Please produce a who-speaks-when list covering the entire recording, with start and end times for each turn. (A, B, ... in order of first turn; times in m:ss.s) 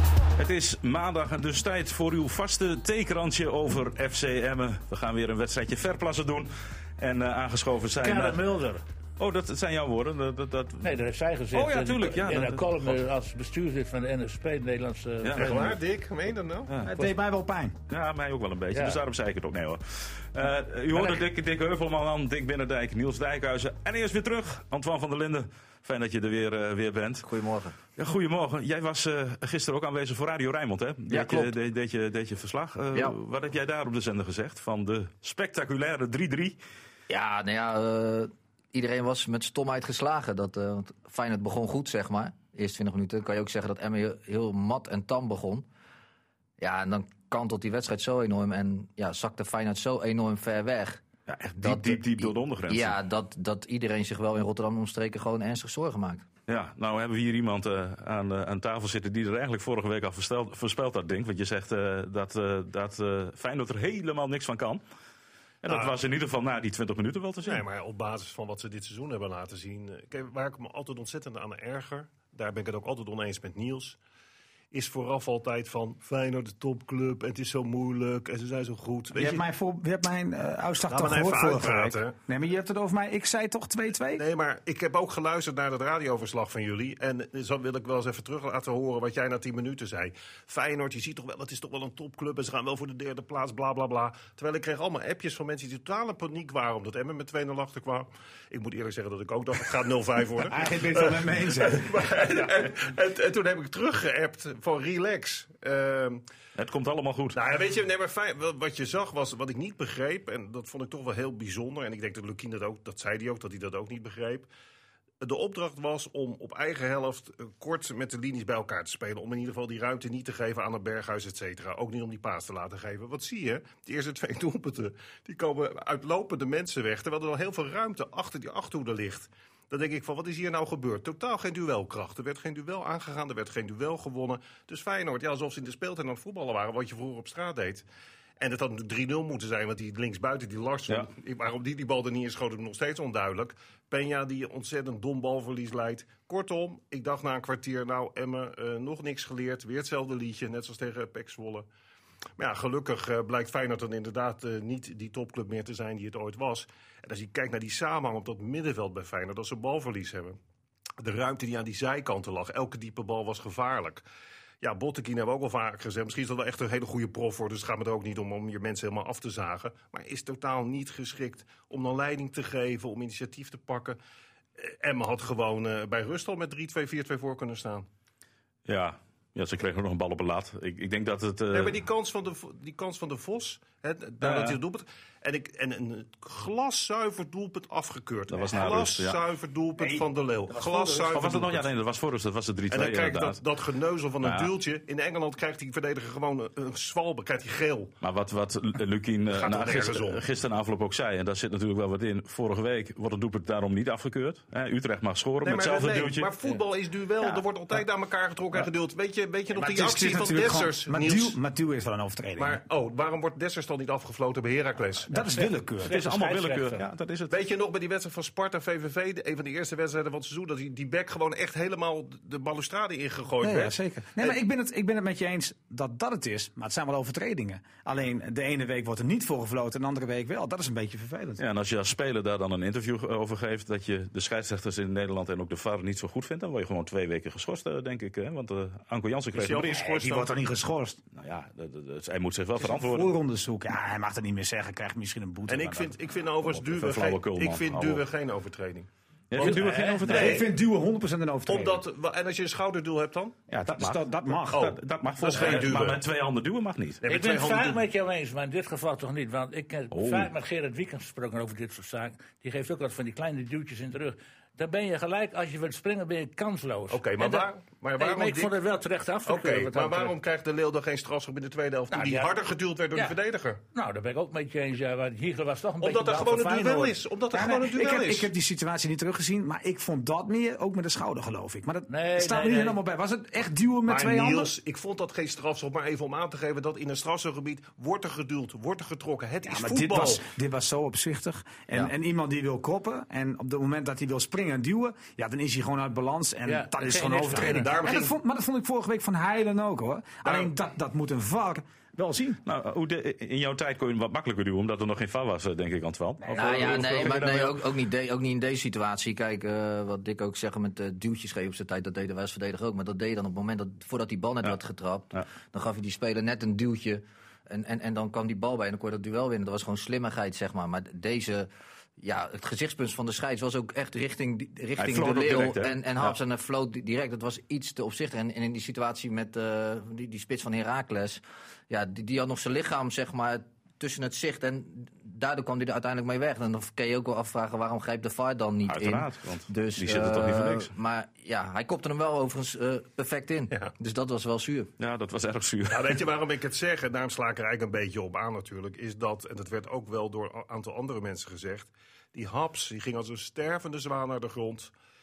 0:00.4-0:08.4 A
0:08.0-0:08.8 B
0:09.2-0:11.0 A
0:10.8-0:15.8 B
0:11.5-0:13.0 A
0:15.2-0:15.7 A
0:15.4-0:16.7 C
0:16.7-0:17.1 A
0:16.8-0:17.8 D
0:17.9-0:27.3 A
0:18.7-0:19.0 B
0:20.9-0:21.2 B
0:27.2-0:27.8 E
0:28.0-0:36.6 A
0:31.1-0:31.5 E
0:37.1-0:45.7 E
0:46.6-0:56.3 E
0:51.3-0:53.0 A
0:56.5-1:04.8 A
1:05.6-1:07.6 A
1:05.7-1:06.0 C
1:07.4-1:14.0 C
1:14.7-1:19.4 C
1:19.2-1:24.2 D
1:20.9-1:22.2 C
1:24.2-1:46.2 C
1:40.5-1:41.9 D
1:46.6-1:47.4 A
1:47.4-1:54.5 C
1:55.2-2:17.8 C
2:18.4-2:31.7 C
2:32.4-2:40.4 C
2:41.0-2:44.0 C
2:44.6-2:54.0 C
2:54.6-2:57.9 C
2:58.7-3:01.8 A
3:01.5-3:11.7 C
3:04.2-3:04.6 A
3:08.3-3:09.2 A
3:10.5-3:11.0 D
3:11.0-3:13.4 A
3:12.7-3:17.9 C
3:14.2-3:14.5 A
3:18.0-3:26.3 A
3:19.3-3:20.2 C
3:25.4-3:31.4 C
3:29.6-3:32.6 D
3:32.4-3:35.2 C
3:35.1-3:36.0 D
3:35.2-3:36.8 B
3:35.8-3:37.3 A
3:37.3-3:44.4 C
3:43.4-3:51.4 D
3:51.4-4:00.0 A
3:59.3-4:00.3 C
3:59.8-4:01.0 D
4:01.1-4:03.1 A
4:02.6-4:06.0 D
4:05.5-4:10.4 C
4:06.4-4:08.0 A
4:09.3-4:10.5 A
4:09.4-4:10.3 B
4:10.1-4:11.8 D
4:11.5-4:13.4 C
4:13.5-4:14.7 D
4:13.8-4:17.0 A
4:14.5-4:16.0 C
4:17.0-4:17.8 C
4:17.1-4:30.2 B
4:19.9-4:20.3 A
4:26.9-4:28.6 C
4:29.2-4:33.6 C
4:31.9-4:32.4 B
4:33.7-4:37.0 B
4:35.8-4:38.3 C
4:37.3-4:44.5 D
4:41.9-4:42.8 B
4:43.9-4:50.3 C
4:49.4-5:02.4 D
4:56.5-4:57.8 B
4:57.3-4:58.2 C
5:00.2-5:00.5 C
5:02.5-5:07.6 A
5:06.2-5:07.1 D
5:06.3-5:44.7 E
5:24.8-5:26.2 A
5:38.7-5:40.7 A
5:44.8-5:46.0 A
5:45.7-5:54.7 C